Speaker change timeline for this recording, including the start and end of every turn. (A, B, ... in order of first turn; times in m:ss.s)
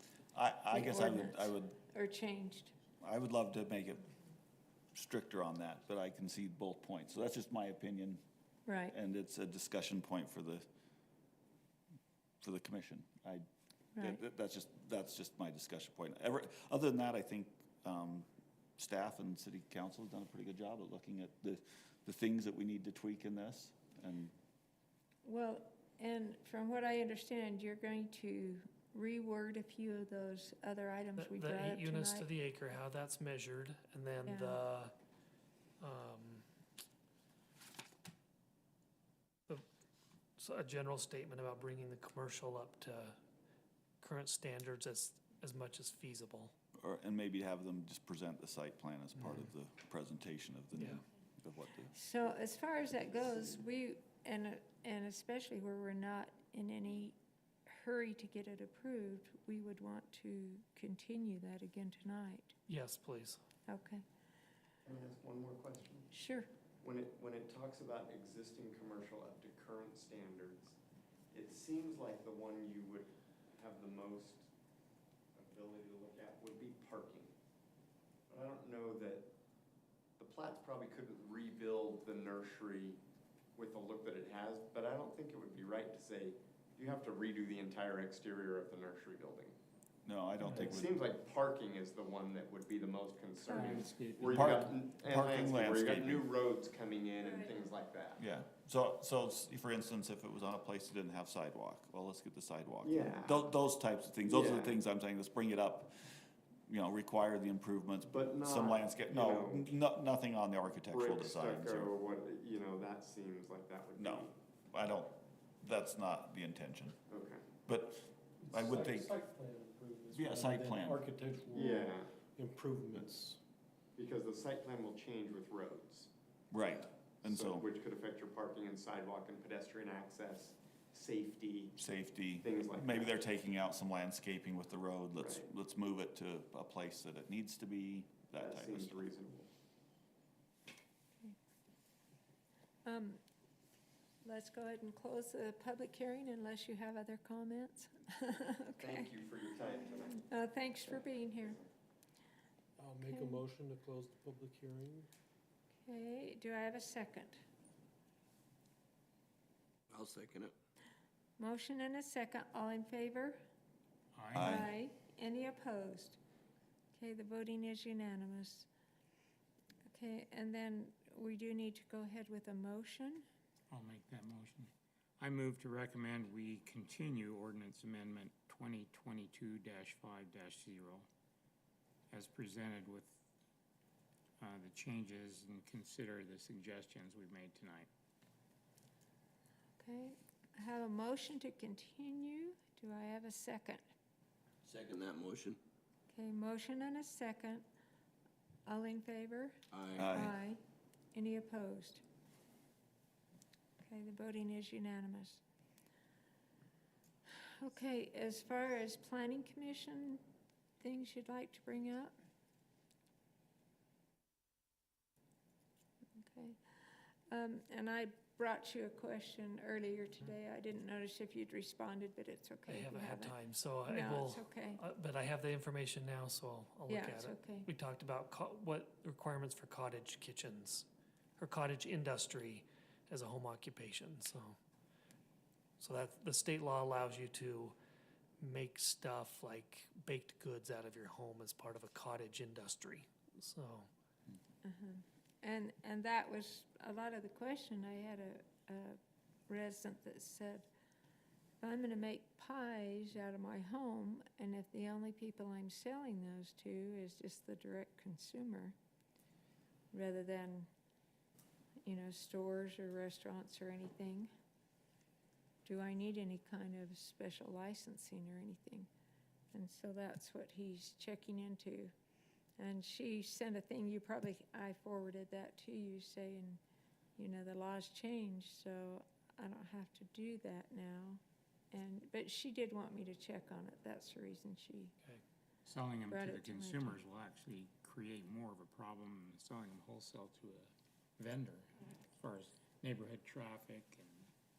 0:00.3-0:01.7 A
0:00.7-0:02.7 B
0:03.0-0:04.0 A
0:04.9-0:08.2 A
0:08.6-0:08.9 B
0:08.9-0:10.6 A
0:12.4-0:13.4 A
0:14.0-0:24.3 A
0:25.2-0:32.3 B
0:31.2-0:34.9 C
0:34.2-0:34.6 B
0:35.8-0:36.4 C
0:40.4-0:43.2 C
0:44.0-0:46.5 C
0:46.8-0:51.9 A
0:51.9-1:02.6 B
1:02.7-1:03.4 C
1:03.7-1:04.0 B
1:04.8-1:06.1 D
1:06.1-1:06.5 B
1:06.8-1:10.8 D
1:11.3-1:14.5 D
1:15.3-1:17.3 D
1:18.3-1:19.3 D
1:20.2-1:23.0 D
1:23.6-1:29.6 D
1:30.0-1:30.9 A
1:30.5-1:38.2 D
1:33.5-1:33.9 B
1:33.5-1:34.7 E
1:34.3-1:36.2 A
1:37.2-1:37.6 B
1:38.2-1:46.1 A
1:42.8-1:43.5 D
1:44.2-1:44.8 D
1:46.7-1:51.9 A
1:48.0-1:49.6 D
1:50.9-1:54.3 D
1:54.0-1:57.0 A
1:57.1-1:57.4 D
1:57.7-1:59.1 A
1:58.4-2:03.4 F
2:00.1-2:01.0 A
2:01.5-2:02.1 D
2:04.0-2:06.1 D
2:06.5-2:07.7 A
2:07.2-2:11.8 D
2:11.8-2:19.0 A
2:12.4-2:13.2 D
2:15.2-2:15.5 D
2:18.4-2:19.5 D
2:22.8-2:23.2 B
2:24.2-2:29.1 B
2:28.8-2:30.2 D
2:30.1-2:31.6 B
2:32.8-2:35.1 F
2:33.0-2:33.4 B
2:35.8-2:37.4 B
2:39.9-2:40.5 G
2:41.4-2:43.4 B
2:44.1-2:44.7 E
2:44.3-2:44.7 A
2:44.4-2:46.2 B
2:46.9-2:48.7 B
2:49.9-2:53.2 B
2:53.7-3:01.1 E
3:02.1-3:03.2 E
3:04.4-3:07.9 E
3:09.8-3:13.8 B
3:14.6-3:15.6 G
3:16.1-3:17.6 B
3:18.6-3:20.6 B
3:19.7-3:20.0 G
3:20.0-3:20.4 A
3:21.1-3:22.0 B
3:23.8-3:25.4 B
3:27.4-3:30.2 B
3:30.8-3:32.1 B
3:36.2-3:36.6 B
3:37.3-3:43.3 B
3:42.7-3:50.9 C
3:43.8-3:44.8 B
3:46.9-3:47.7 B
3:51.4-3:54.6 C
3:55.8-3:57.8 C
3:58.4-4:03.9 C
4:04.6-4:10.7 B
4:11.6-4:18.8 B
4:19.9-4:20.7 B
4:21.8-4:24.3 B
4:25.6-4:28.9 B
4:29.5-4:31.9 B
4:32.6-4:36.6 B
4:37.2-4:41.2 B
4:41.7-4:44.9 B
4:45.6-4:54.3 E
4:46.1-4:47.0 B